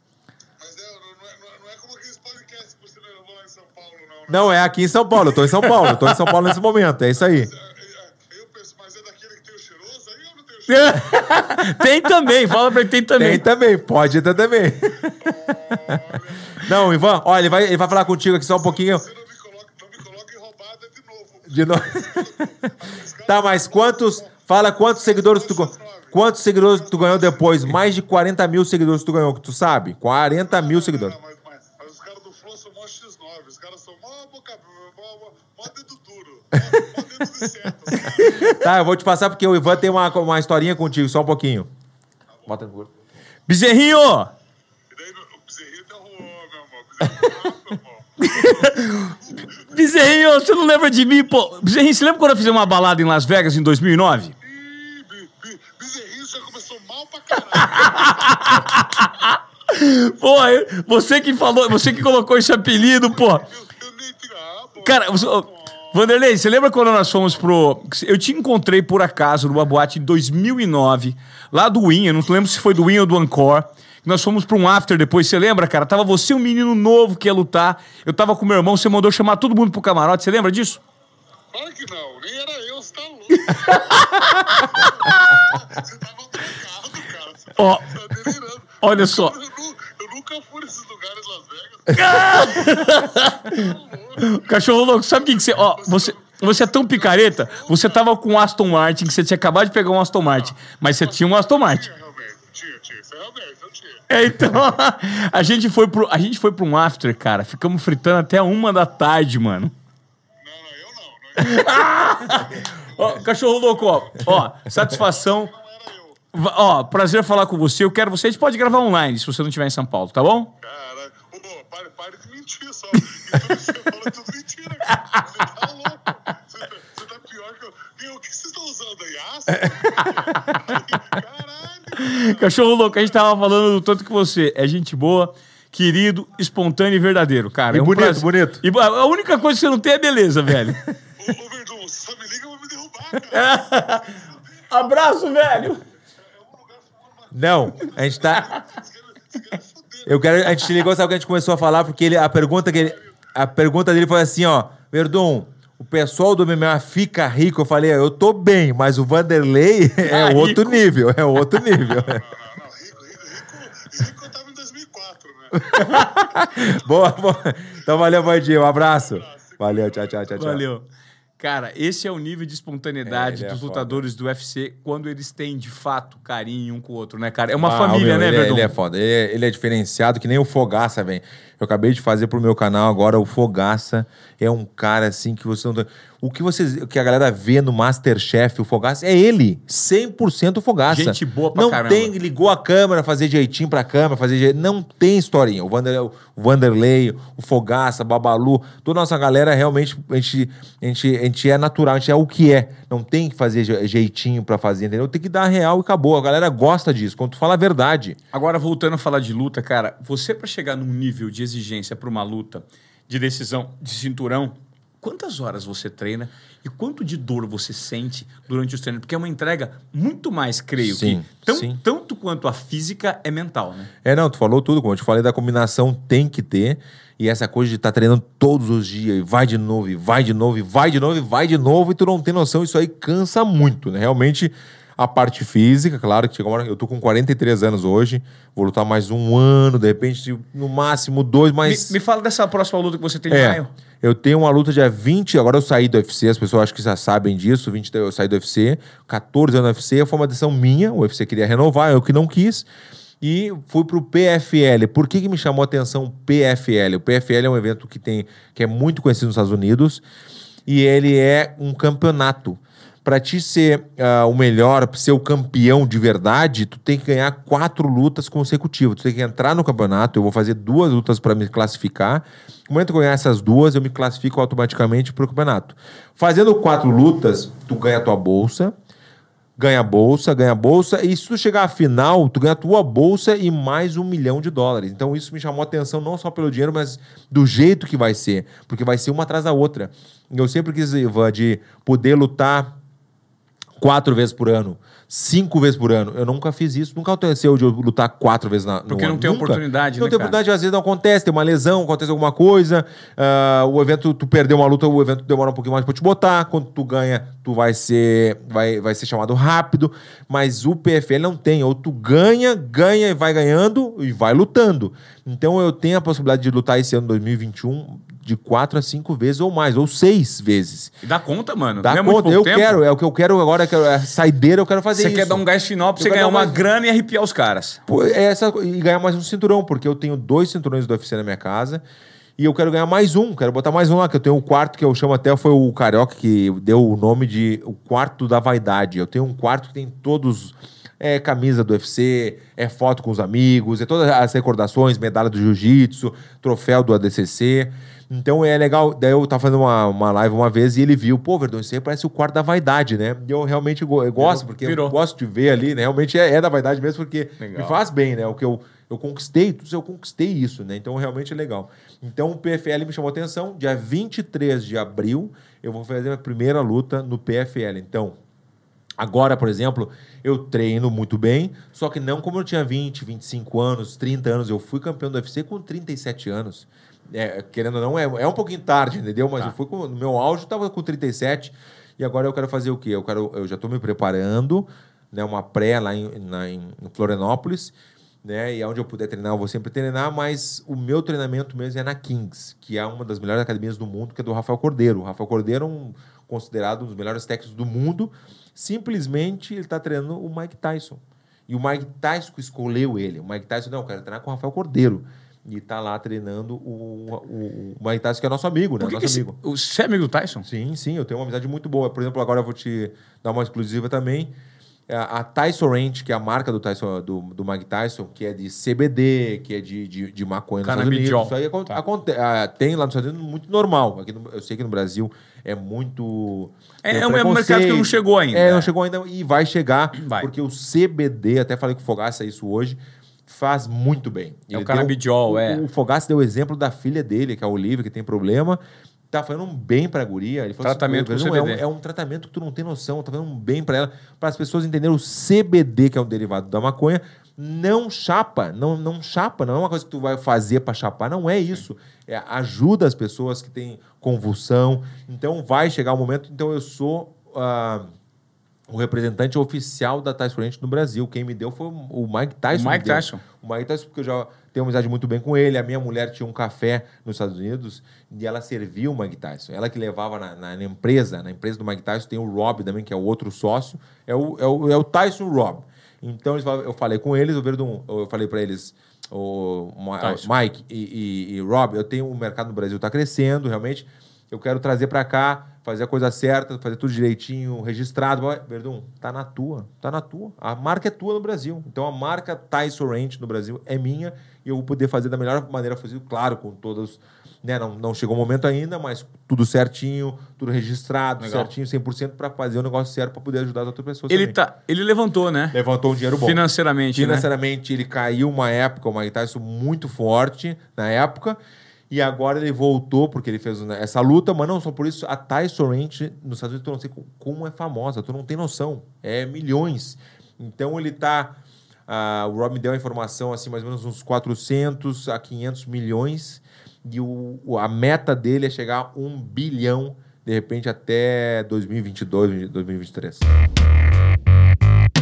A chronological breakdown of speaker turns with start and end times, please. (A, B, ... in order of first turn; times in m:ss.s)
0:00.6-0:04.6 A
0:04.3-0:07.5 B
0:05.4-0:06.4 C
0:07.5-0:11.5 A
0:10.7-0:13.4 C
0:13.2-0:19.1 B
0:15.2-0:16.7 A
0:18.8-0:26.2 A
0:21.5-0:31.2 B
0:26.7-0:27.4 A
0:30.4-0:38.5 A
0:36.5-0:37.0 B
0:37.9-0:41.7 B
0:38.2-0:38.5 C
0:42.5-0:42.9 B
0:43.5-0:44.3 C
0:44.9-0:48.5 A
0:48.2-0:54.3 C
0:49.3-0:49.6 A
0:54.4-0:58.6 A
0:57.5-1:03.5 C
1:03.1-1:05.9 A
1:04.8-1:20.8 C
1:21.5-1:34.5 A
1:23.4-1:25.6 C
1:27.6-1:29.4 C
1:31.9-1:41.9 C
1:35.7-1:38.1 A
1:41.1-1:44.0 A
1:44.1-1:49.7 C
1:50.4-1:51.9 A
1:51.4-1:55.5 C
1:54.8-1:56.2 A
1:56.3-2:00.5 C
2:00.6-2:13.0 A
2:04.8-2:05.3 C
2:09.6-2:10.6 B
2:11.9-2:20.9 C
2:17.7-2:18.6 B
2:21.2-2:24.8 A
2:23.3-2:25.8 C
2:26.2-2:30.7 A
2:27.3-2:28.6 B
2:28.4-2:28.6 C
2:30.0-2:42.2 B
2:40.0-2:40.9 C
2:41.9-2:45.8 A
2:45.5-2:50.6 B
2:45.7-2:46.1 C
2:49.0-2:50.2 A
2:50.3-2:50.8 C
2:51.4-2:58.7 C
2:53.0-2:54.0 B
2:57.6-3:28.2 B
3:10.9-3:12.1 C
3:28.3-3:43.9 C
3:40.8-3:41.8 B
3:44.0-4:01.9 B
4:01.6-4:03.7 C
4:03.3-4:12.7 B
4:13.2-4:20.0 B
4:20.6-4:38.7 B
4:39.6-4:52.7 B
4:53.8-5:20.9 B
4:58.9-5:00.4 C
5:21.0-5:22.8 C
5:21.8-5:25.4 B
5:24.9-5:27.8 C
5:26.0-5:26.7 B
5:27.9-5:31.8 B
5:32.4-6:08.2 B
5:54.2-5:55.0 C
5:57.4-5:57.8 C
6:09.0-6:49.4 B
6:48.8-6:50.5 C
6:50.4-6:54.3 B
6:54.9-7:37.9 B
7:00.6-7:01.3 C
7:06.8-7:08.7 C
7:10.0-7:10.3 C
7:14.5-7:15.6 C
7:20.6-7:21.6 C
7:38.7-8:24.4 B
7:42.5-7:43.2 C
8:00.0-8:00.3 C
8:21.2-8:21.5 C
8:24.1-8:25.6 C
8:25.5-8:26.4 B
8:26.2-8:27.3 C
8:26.9-8:31.4 B
8:31.9-8:53.3 B